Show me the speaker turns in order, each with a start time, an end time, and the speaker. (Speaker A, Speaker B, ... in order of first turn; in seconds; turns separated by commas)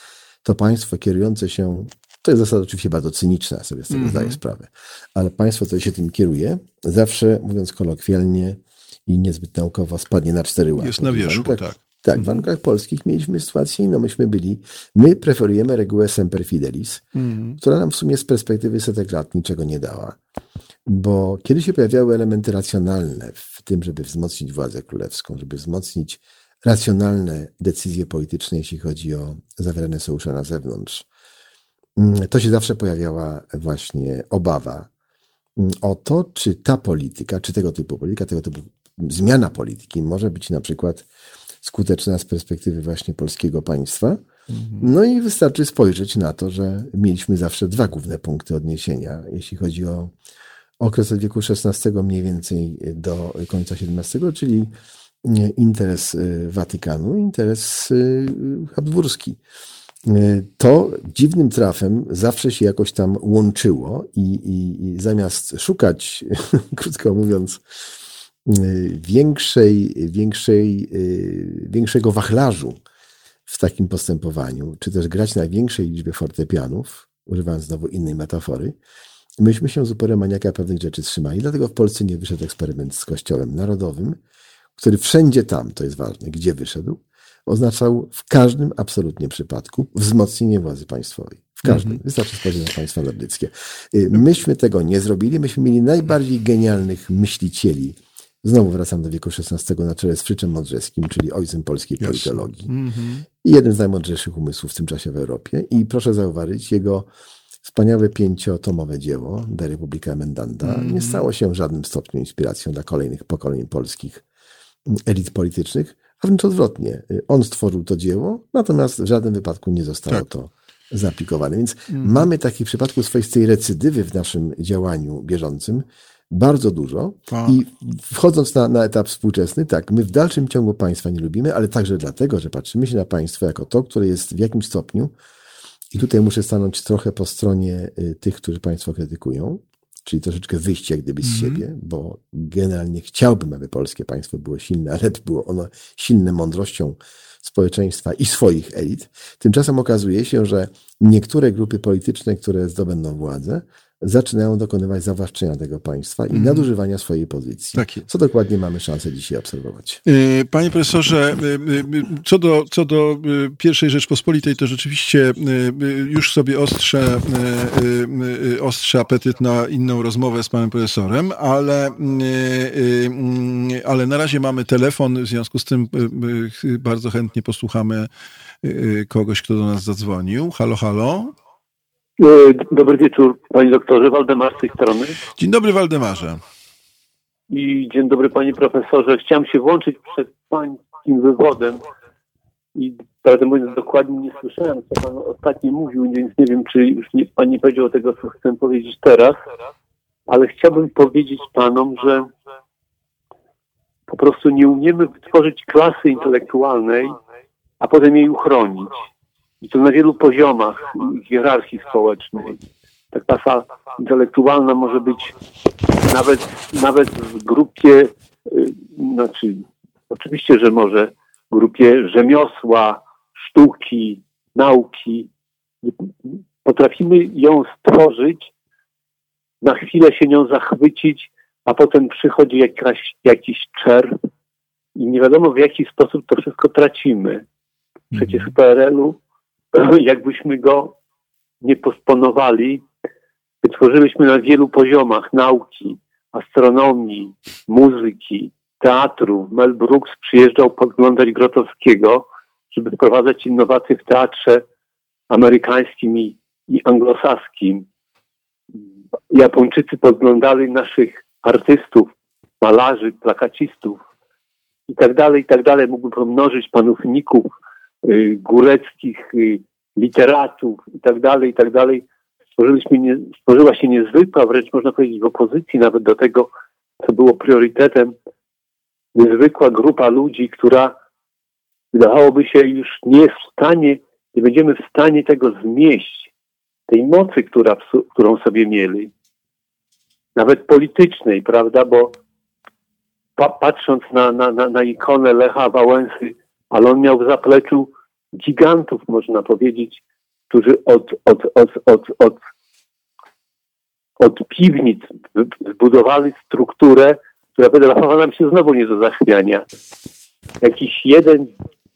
Speaker A: 0.4-17.0, Speaker B: 3.9-4.4, Speaker B: 10.8-12.4, Speaker B: 17.1-17.6, Speaker A: 17.6-20.2, Speaker A: 20.9-31.1, Speaker A: 32.0-34.9, Speaker A: 35.6-41.0, Speaker A: 41.6-44.2, Speaker B: 44.5-44.9, Speaker A: 44.8-50.1, Speaker A: 50.8-54.7, Speaker A: 55.2-59.4, Speaker A: 60.1-67.6, Speaker A: 68.5-72.8, Speaker A: 73.5-78.8, Speaker A: 79.4-84.2, Speaker A: 84.8-102.7, Speaker B: 91.6-92.0, Speaker B: 102.0-103.3, Speaker A: 103.4-107.1, Speaker A: 107.7-114.2, Speaker B: 110.6-111.2, Speaker A: 114.9-135.1, Speaker B: 121.9-122.3, Speaker B: 127.3-127.6, Speaker A: 135.9-160.0, Speaker B: 141.2-141.7, Speaker B: 156.3-156.7, Speaker B: 157.8-158.1, Speaker B: 160.1-178.1, Speaker B: 178.6-181.3, Speaker C: 182.2-185.2, Speaker B: 185.4-186.4, Speaker C: 187.5-191.8, Speaker C: 192.8-199.4, Speaker C: 200.3-202.3, Speaker C: 204.1-207.2, Speaker C: 207.8-208.9, Speaker C: 209.6-212.6, Speaker C: 213.1-215.3, Speaker C: 216.0-225.3, Speaker C: 225.8-228.5, Speaker C: 229.6-234.2, Speaker C: 235.0-237.4, Speaker B: 238.1-238.5, Speaker C: 238.1-239.2, Speaker C: 239.7-241.0, Speaker C: 241.6-242.8, Speaker C: 243.6-254.6, Speaker C: 255.3-257.9, Speaker C: 259.3-264.0, Speaker C: 264.9-267.5, Speaker C: 268.0-272.0, Speaker C: 272.6-276.5, Speaker C: 277.0-278.1, Speaker C: 279.1-281.0, Speaker C: 281.9-286.3, Speaker C: 286.9-289.1, Speaker C: 290.4-292.2, Speaker C: 293.4-302.4, Speaker C: 304.2-309.6, Speaker C: 310.6-311.5